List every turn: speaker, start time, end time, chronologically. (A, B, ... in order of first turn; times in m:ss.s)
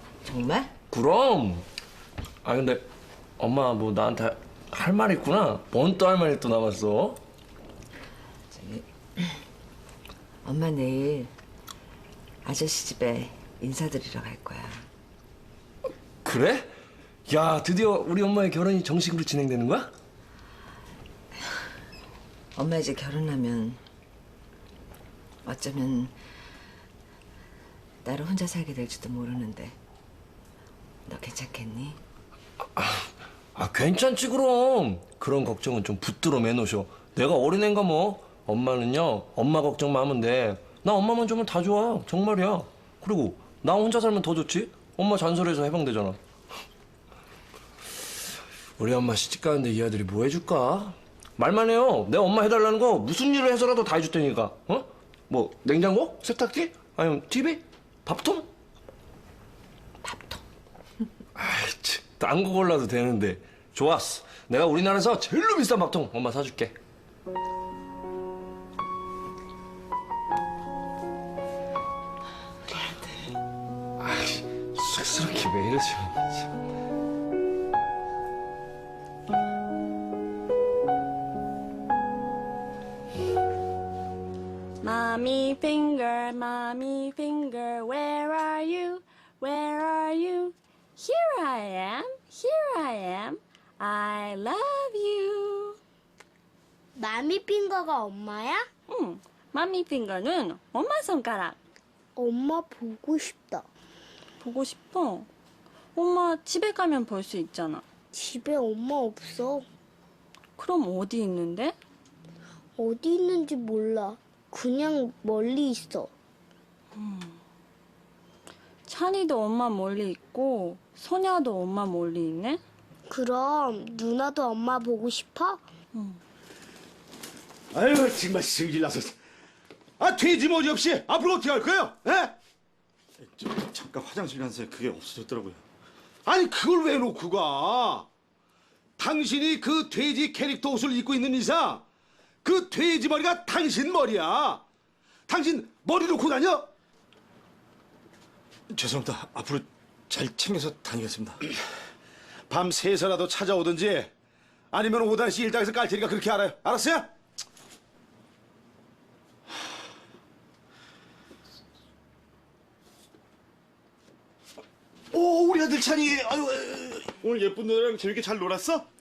0:00.3-0:00.7 A
0:00.9-0:01.6 B
0:02.4-0:02.8 B
0:03.4-0:07.2 B
0:08.6-0:08.8 A
0:10.4-0:11.3 A
0:12.4-0:14.7 A
0:16.2-0:16.7 B
0:17.3-0:19.9 B
0:22.6-0:23.8 A
0:25.5-0:26.1 A
0:28.0-0:29.7 A
0:31.1-0:31.9 A
0:32.8-0:46.2 B
0:48.8-0:58.5 B
1:01.4-1:06.8 B
1:14.0-1:16.5 B
1:24.8-1:35.8 C
1:37.0-1:38.6 D
1:38.9-1:41.6 C
1:42.2-1:43.6 D
1:44.4-1:45.3 C
1:46.0-1:47.8 C
1:48.1-1:49.7 D
1:50.6-1:51.8 C
1:52.8-1:56.1 D
1:57.0-1:57.4 C
1:58.9-2:02.6 C
2:03.1-2:05.6 D
2:06.0-2:06.2 C
2:07.7-2:09.1 E
2:10.0-2:12.3 E
2:13.2-2:15.6 F
2:16.3-2:18.0 E
2:19.0-2:21.8 E
2:22.4-2:24.6 E
2:25.3-2:26.6 E
2:28.7-2:31.4 F
2:32.5-2:34.1 E
2:34.7-2:37.0 E
2:45.1-2:48.9 F